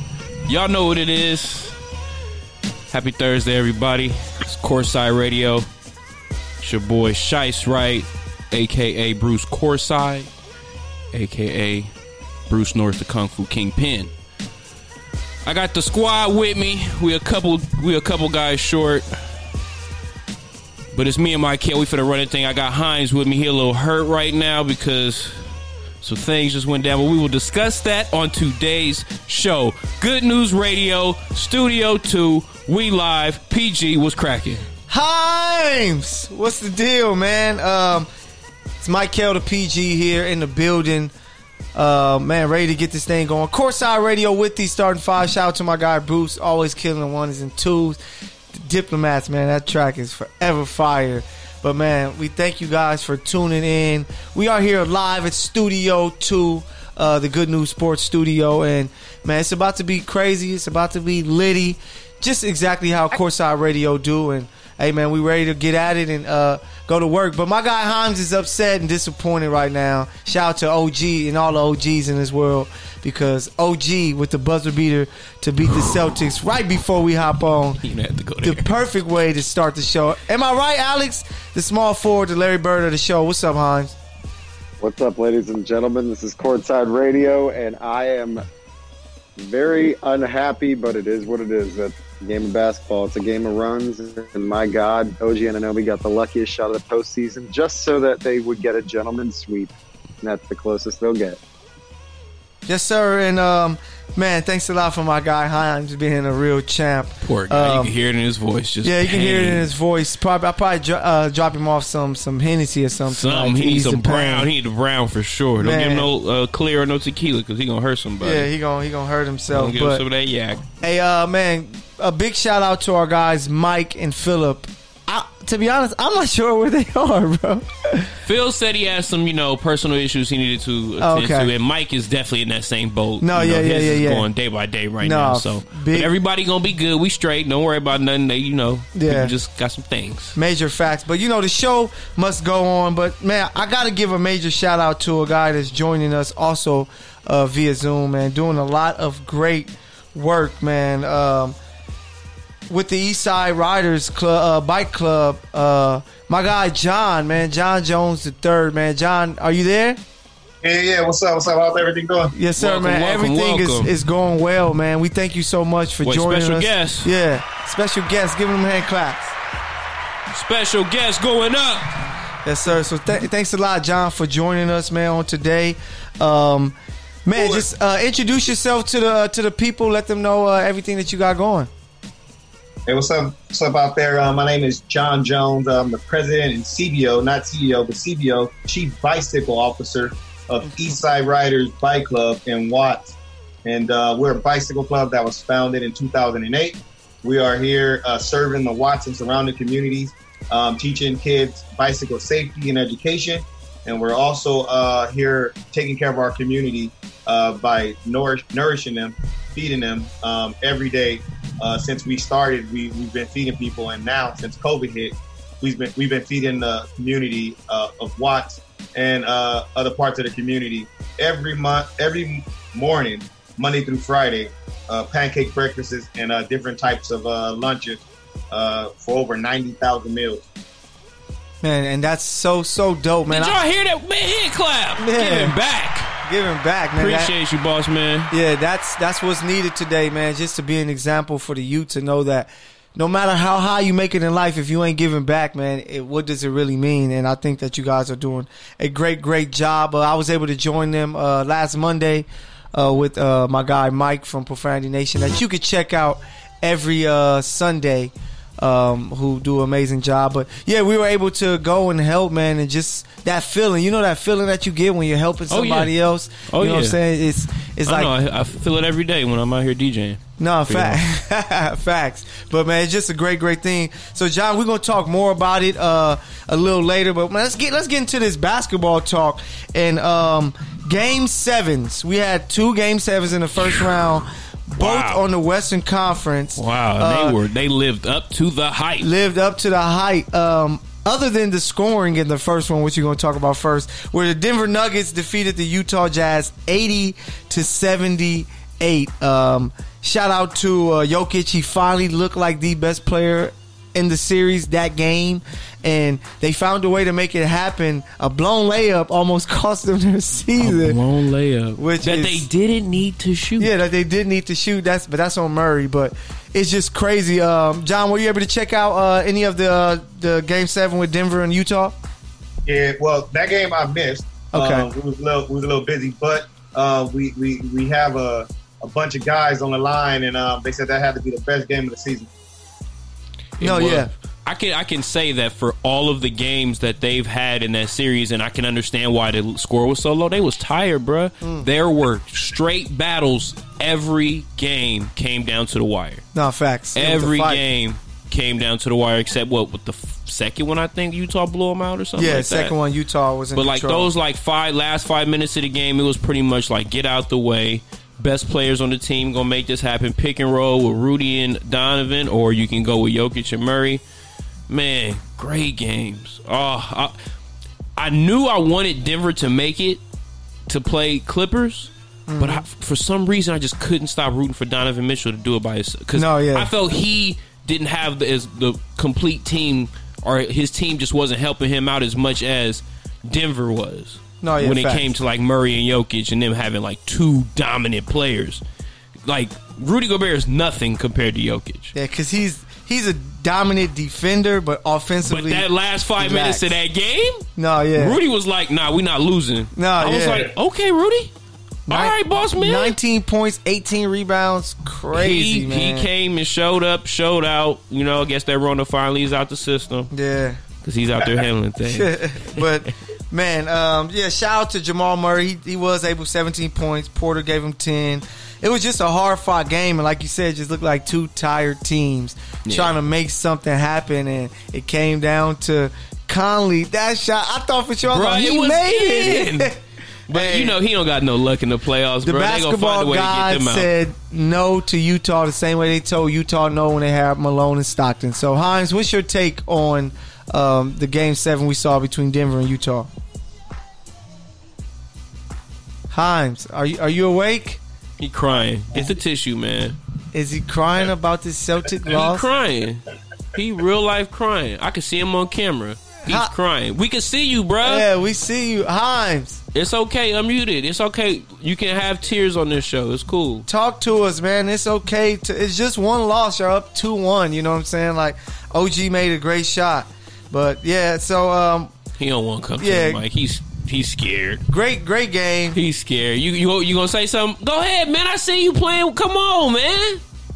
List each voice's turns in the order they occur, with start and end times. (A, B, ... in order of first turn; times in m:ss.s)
0:00.5-0:01.8 A
0:02.9-0:05.7 A
0:06.6-0:10.3 A
0:11.1-0:11.9 A
0:12.5-0:14.1 A
0:15.4-0:19.3 A
0:20.9-0:34.7 A
0:34.9-0:38.1 B
0:38.8-0:41.1 B
0:41.7-0:48.0 B
0:48.5-1:17.8 B
1:17.8-1:18.7 A
1:18.4-1:24.0 B
1:24.8-1:28.5 C
1:29.4-1:41.4 C
1:42.7-1:47.9 B
1:47.2-1:49.7 A
1:48.8-1:54.5 B
1:53.1-1:58.5 A
1:55.6-1:56.1 B
1:58.2-2:00.0 B
1:59.5-2:00.7 A
2:00.8-2:08.2 B
2:08.2-2:20.4 A
2:11.0-2:11.5 B
2:13.2-2:14.3 B
2:15.0-2:16.1 B
2:18.9-2:19.3 B
2:20.4-2:31.6 B
2:32.7-2:40.0 B
2:40.6-2:42.3 D
2:42.4-2:49.4 B
2:42.6-2:43.9 A
2:46.0-2:47.1 A
2:50.3-2:52.0 A
2:52.4-3:01.7 B
2:57.4-2:57.7 D
3:02.9-3:50.5 D
3:51.6-3:53.6 B
3:53.3-3:56.2 A
3:55.0-3:55.6 B
3:56.2-3:57.3 B
3:57.0-3:58.3 A
3:58.3-4:28.1 B
4:25.5-4:25.9 A
4:26.5-4:27.0 A
4:27.9-4:31.0 A
4:30.4-4:47.4 B
4:44.8-4:45.2 A
4:46.6-4:49.1 A
4:49.0-5:11.0 B
5:10.6-5:13.7 A
5:11.8-5:12.5 B
5:13.6-5:22.0 B
5:22.7-5:32.3 D
5:24.5-5:24.9 B
5:33.6-5:46.2 A
5:33.6-5:34.1 B
5:41.4-5:41.7 B
5:46.3-5:47.6 B
5:47.0-5:52.8 A
5:52.2-5:54.1 B
5:53.5-6:04.0 A
6:04.7-6:07.2 A
6:08.0-6:10.0 A
6:10.7-6:28.6 A
6:12.3-6:12.6 B
6:16.1-6:16.7 B
6:24.4-6:25.1 B
6:29.2-6:31.9 A
6:31.9-6:35.7 B
6:35.2-6:41.3 A
6:36.2-6:36.8 B
6:37.6-6:38.2 B
6:39.8-6:40.5 B
6:41.9-6:46.1 B
6:41.9-6:43.0 A
6:45.1-6:50.1 A
6:50.1-6:50.6 B
6:50.8-6:52.7 A
6:51.2-7:09.8 B
7:02.6-7:02.9 A
7:08.1-7:09.7 A
7:10.3-7:13.9 A
7:10.3-7:10.8 B
7:12.2-7:23.1 B
7:26.1-7:27.8 B
7:28.2-7:30.0 A
7:30.3-7:32.5 B
7:32.1-7:38.1 A
7:37.8-7:39.6 B
7:39.7-7:43.7 A
7:43.7-7:51.9 B
7:52.2-7:54.6 A
7:52.8-7:53.2 B
7:54.7-7:55.8 B
7:55.7-8:00.2 A